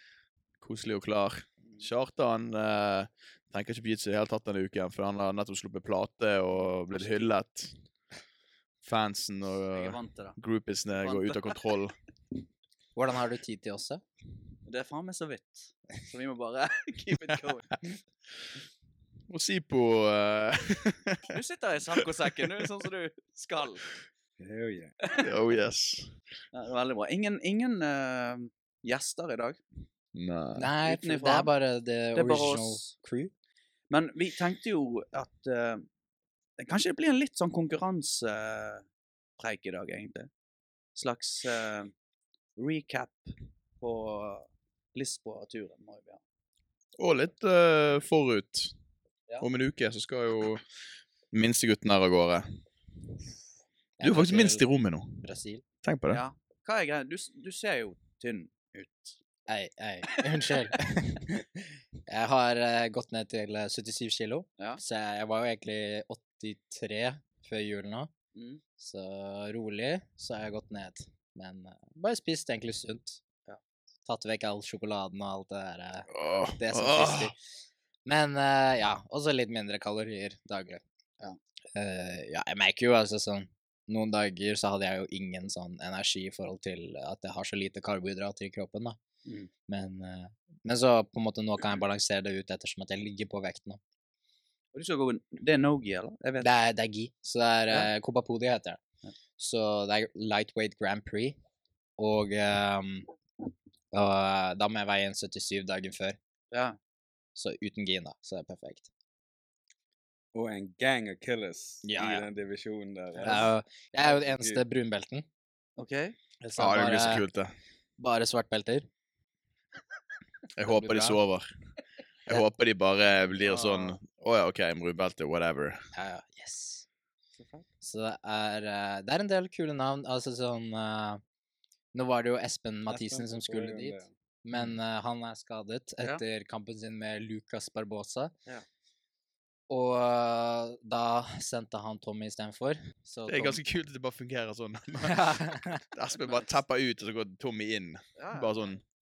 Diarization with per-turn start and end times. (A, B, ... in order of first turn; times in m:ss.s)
0:00.6-0:07.7 A
0:01.6-0:01.9 B
0:06.9-0:07.3 B
0:08.8-0:12.0 A
0:09.7-0:10.4 B
0:11.0-0:11.6 B
0:13.0-0:14.0 C
0:14.6-0:17.8 B
0:19.3-0:21.3 A
0:21.3-0:23.8 B
0:24.4-0:24.9 D
0:25.0-0:25.3 B
0:25.2-0:26.1 A
0:26.5-0:29.6 B
0:30.1-0:30.7 A
0:30.6-0:33.3 C
0:30.8-0:31.5 B
0:32.1-0:32.9 B
0:33.9-0:35.8 B
0:36.6-0:38.8 B
0:39.4-0:40.3 B
0:40.9-0:41.9 B
0:42.6-0:46.2 B
0:47.0-0:48.7 A
0:49.4-0:50.6 A
0:51.3-0:52.4 A
0:54.0-0:54.6 C
0:54.0-0:55.2 A
0:55.2-0:55.6 C
0:55.8-0:56.2 A
0:56.1-0:59.2 B
0:59.5-1:01.4 C
1:00.1-1:00.8 B
1:02.1-1:08.1 C
1:08.3-1:08.6 B
1:08.8-1:13.2 C
1:14.0-1:17.4 C
1:16.1-1:17.3 A
1:18.0-1:20.8 C
1:21.7-1:29.0 C
1:29.7-1:33.8 C
1:34.7-1:36.5 B
1:36.4-1:38.8 C
1:39.4-1:41.4 C
1:42.0-1:43.1 C
1:43.9-1:46.2 C
1:46.5-1:46.8 B
1:47.3-1:48.9 C
1:50.3-1:53.5 D
1:51.8-1:52.2 C
1:53.2-1:55.2 C
1:54.1-1:54.6 D
1:55.8-1:56.2 B
1:56.4-1:57.2 C
1:56.6-1:57.5 A
1:58.0-1:58.9 C
2:00.6-2:01.5 A
2:00.7-2:01.2 C
2:02.2-2:05.8 A
2:03.4-2:03.9 B
2:05.9-2:06.8 C
2:07.4-2:07.6 B
2:07.8-2:11.2 C
2:11.9-2:18.3 C
2:12.9-2:14.1 D
2:19.7-2:23.6 C
2:23.3-2:28.8 A
2:25.0-2:25.8 C
2:28.2-2:28.7 B